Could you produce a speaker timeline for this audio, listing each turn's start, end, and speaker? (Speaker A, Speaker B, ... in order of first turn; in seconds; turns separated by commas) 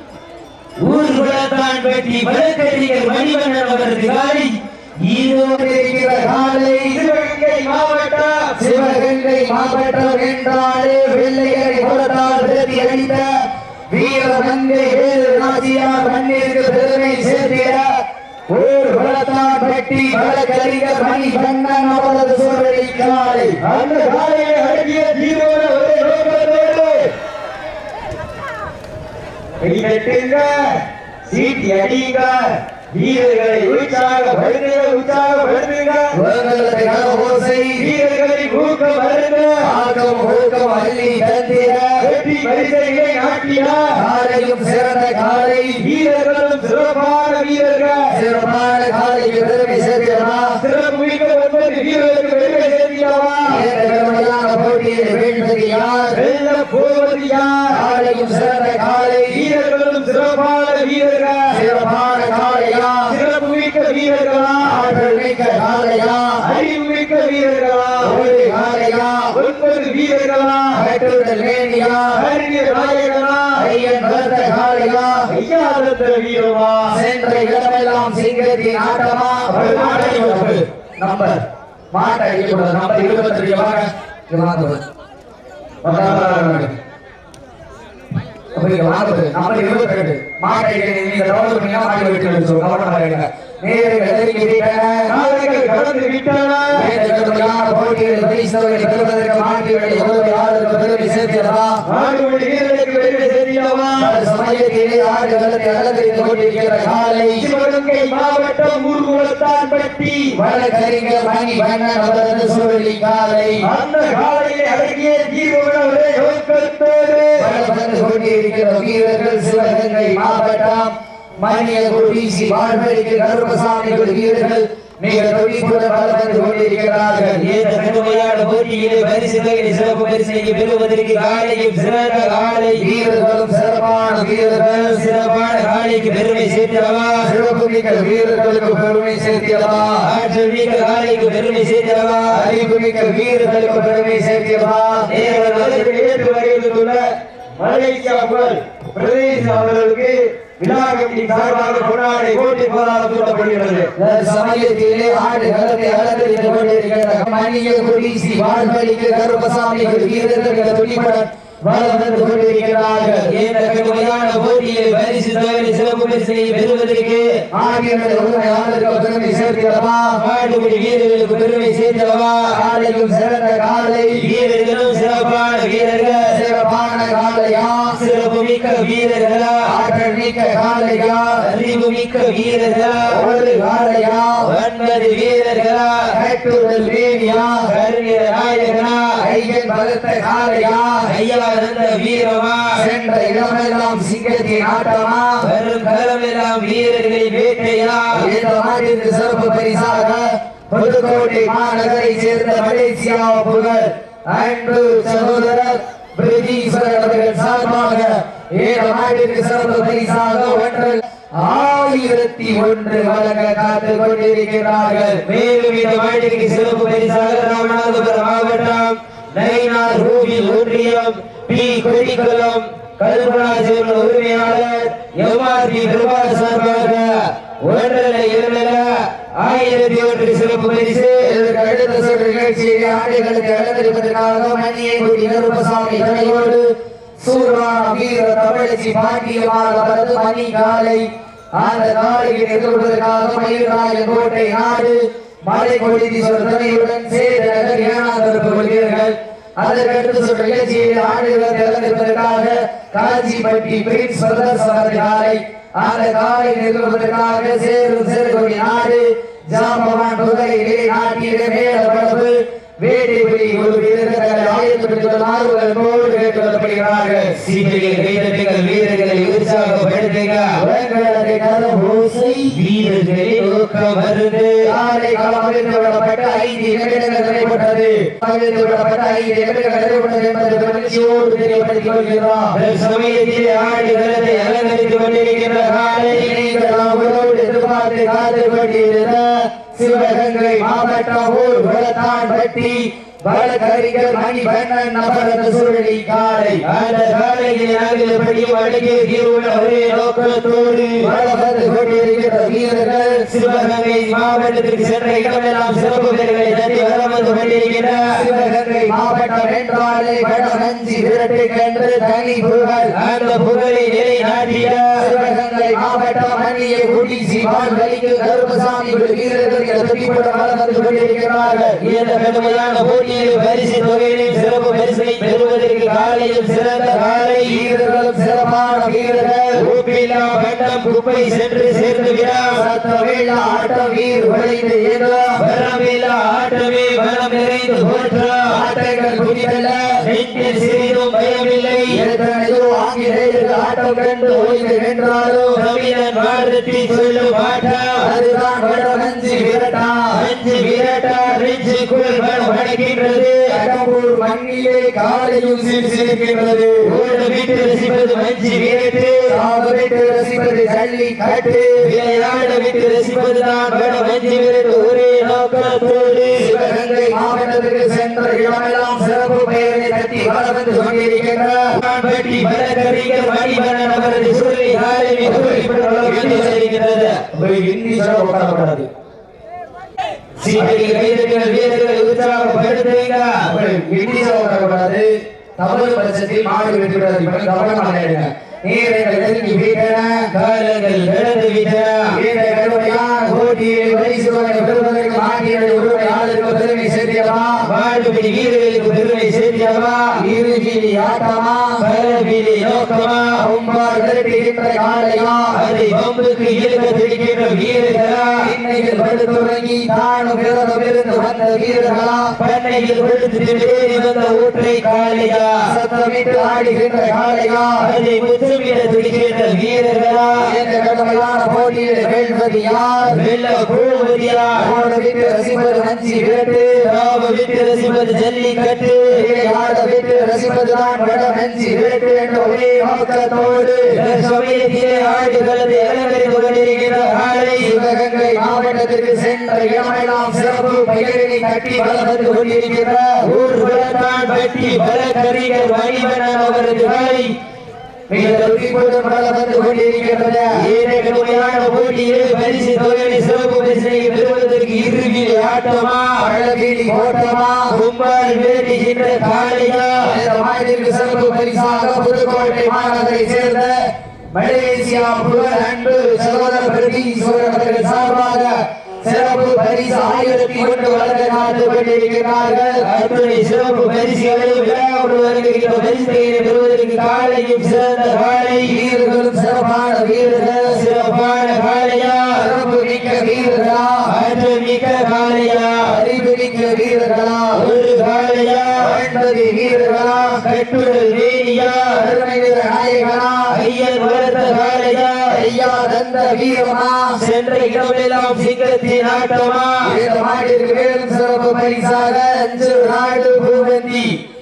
Speaker A: 0.8-5.6, Speaker B: 5.3-7.0, Speaker A: 6.9-8.6, Speaker B: 8.6-23.6, Speaker A: 23.6-27.1, Speaker A: 29.6-36.2, Speaker B: 36.1-37.9, Speaker A: 37.8-39.7, Speaker B: 39.6-42.1, Speaker A: 42.0-44.0, Speaker B: 43.9-45.9, Speaker A: 45.8-48.2, Speaker B: 48.1-50.6, Speaker A: 50.6-53.6, Speaker B: 53.5-56.2, Speaker A: 56.1-57.8, Speaker B: 57.7-59.5, Speaker A: 59.3-61.6, Speaker B: 61.5-63.1, Speaker A: 63.1-65.0, Speaker B: 64.7-66.5, Speaker A: 66.4-68.3, Speaker B: 68.0-69.4, Speaker A: 69.3-70.7, Speaker B: 70.7-72.2, Speaker A: 72.2-73.5, Speaker B: 73.5-75.3, Speaker A: 75.3-77.0, Speaker B: 76.9-84.8, Speaker A: 79.5-80.6, Speaker B: 85.8-86.8, Speaker B: 88.5-95.1, Speaker A: 95.1-96.9, Speaker B: 96.7-101.8, Speaker A: 101.8-104.2, Speaker B: 104.0-107.5, Speaker A: 107.4-110.3, Speaker B: 110.3-113.7, Speaker A: 113.6-117.5, Speaker B: 117.4-127.4, Speaker A: 127.3-132.9, Speaker B: 132.7-135.0, Speaker A: 134.9-137.3, Speaker B: 137.2-140.1, Speaker A: 140.0-142.5, Speaker B: 142.3-145.1, Speaker A: 145.0-153.9, Speaker B: 153.9-163.3, Speaker A: 163.2-167.4, Speaker B: 167.5-170.2, Speaker A: 170.1-172.6, Speaker B: 172.5-174.3, Speaker A: 174.2-176.4, Speaker B: 176.3-178.0, Speaker A: 177.9-179.7, Speaker B: 179.6-181.4, Speaker A: 181.4-183.2, Speaker B: 183.1-184.5, Speaker A: 184.4-186.1, Speaker B: 186.1-187.7, Speaker A: 187.7-189.2, Speaker B: 189.2-191.1, Speaker A: 191.0-192.8, Speaker B: 192.7-195.5, Speaker A: 195.4-198.2, Speaker B: 198.1-215.2, Speaker A: 215.2-231.3, Speaker B: 231.2-267.4, Speaker A: 267.4-270.6, Speaker B: 270.6-272.6, Speaker A: 272.5-274.7, Speaker B: 274.6-282.6, Speaker A: 282.5-286.3, Speaker B: 286.1-296.6, Speaker A: 296.6-301.1, Speaker B: 301.0-303.3, Speaker A: 303.3-308.1, Speaker B: 308.1-312.9, Speaker A: 312.9-315.0, Speaker B: 315.0-321.8, Speaker A: 321.8-327.6, Speaker B: 327.4-329.6, Speaker A: 329.5-332.6, Speaker B: 332.5-335.4, Speaker A: 335.4-338.6, Speaker B: 338.5-340.1, Speaker A: 340.0-342.0, Speaker B: 341.9-345.6, Speaker A: 345.5-348.1, Speaker B: 348.0-350.2, Speaker A: 350.1-353.6, Speaker B: 353.5-356.9, Speaker A: 356.8-359.3, Speaker B: 359.2-361.9, Speaker A: 361.8-366.5, Speaker B: 366.3-371.8, Speaker A: 371.7-377.2, Speaker B: 375.2-376.5, Speaker B: 377.3-378.9, Speaker A: 380.4-383.5, Speaker B: 383.4-390.3, Speaker A: 390.3-392.2, Speaker B: 392.1-397.7, Speaker A: 397.6-400.2, Speaker B: 400.2-401.8, Speaker A: 401.8-403.4, Speaker B: 403.4-405.6, Speaker A: 405.5-408.5, Speaker B: 408.4-412.4, Speaker A: 412.4-415.7, Speaker B: 415.6-417.9, Speaker A: 417.8-420.5, Speaker B: 420.4-423.2, Speaker A: 423.1-424.7, Speaker B: 424.6-426.9, Speaker A: 426.8-429.2, Speaker B: 429.1-434.0, Speaker A: 433.9-437.8, Speaker B: 437.6-443.3, Speaker A: 443.2-447.3, Speaker B: 448.1-450.6, Speaker A: 450.5-456.3, Speaker B: 456.2-457.8, Speaker A: 457.7-460.1, Speaker B: 460.0-472.9, Speaker A: 472.8-478.8, Speaker B: 478.6-480.8, Speaker A: 480.6-482.4, Speaker B: 482.3-484.1, Speaker A: 484.1-485.9, Speaker B: 485.8-487.6, Speaker A: 487.5-488.9, Speaker B: 488.8-490.4, Speaker A: 490.3-492.1, Speaker B: 491.9-493.6, Speaker A: 493.5-495.4, Speaker B: 495.3-497.2, Speaker A: 497.2-499.9, Speaker B: 499.8-504.2